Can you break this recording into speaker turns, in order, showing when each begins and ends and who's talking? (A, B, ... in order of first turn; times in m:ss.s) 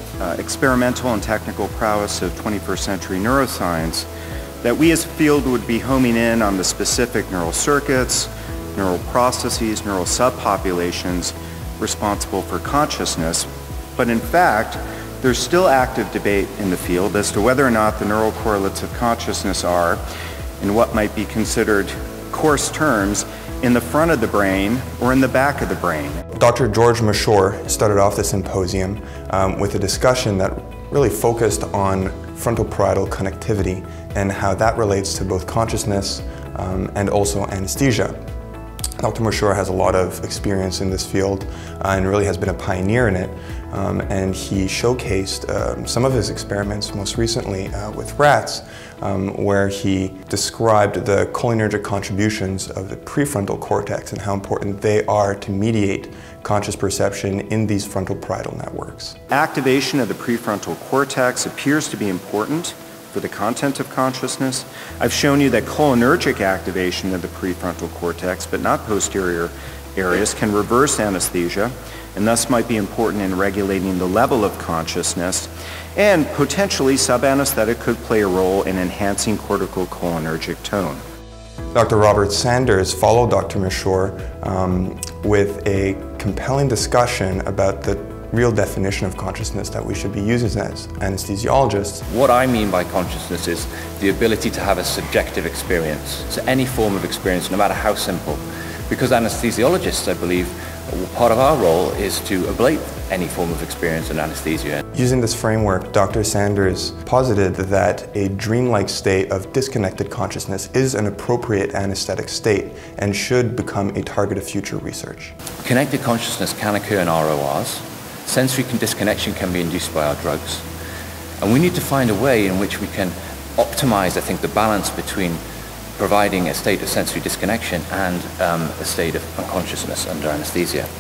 0:00.2-0:04.1 A
0:04.6-0:20.0 A
0:20.6-0:26.2 A
0:26.3-0:38.2 B
0:39.0-0:59.2 B
0:59.3-1:21.0 A
1:21.7-1:32.0 B
1:32.1-1:44.8 C
1:44.9-1:55.4 B
1:55.6-2:00.6 C
2:01.4-2:05.4 C
2:06.0-2:10.9 C